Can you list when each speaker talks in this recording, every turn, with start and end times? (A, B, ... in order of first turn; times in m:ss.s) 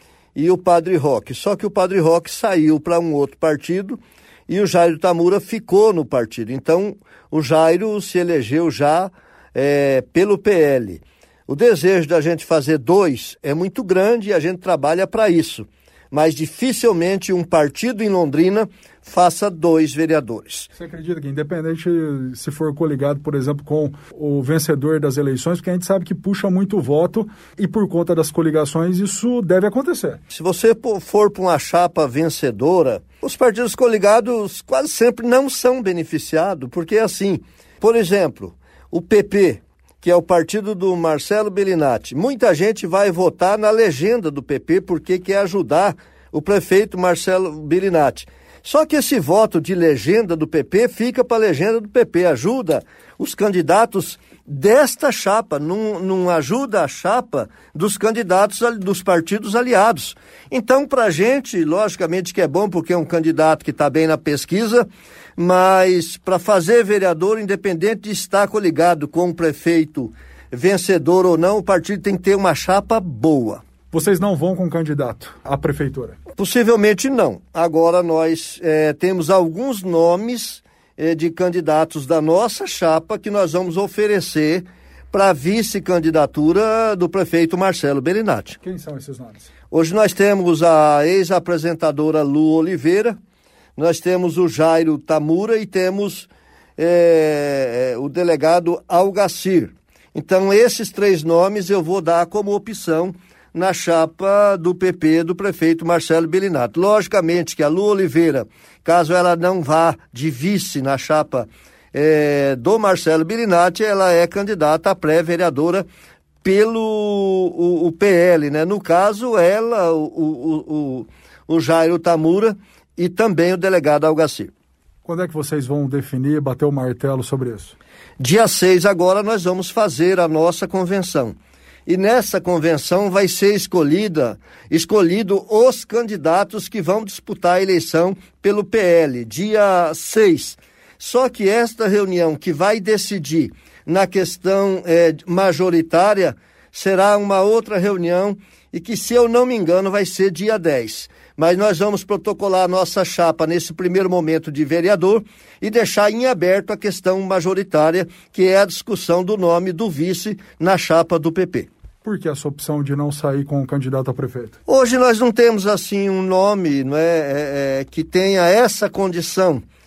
0:00.4-0:20.7 A
0:20.8-0:30.2 B
0:30.3-1:13.6 A
1:13.9-1:16.2 B
1:16.4-1:28.6 A
1:28.6-1:29.5 B
1:29.7-1:33.2 A
1:33.8-1:55.9 A
1:56.4-2:04.5 A
2:05.1-2:07.8 B
2:08.2-2:41.7 A
2:42.0-2:44.6 B
2:44.7-2:49.6 A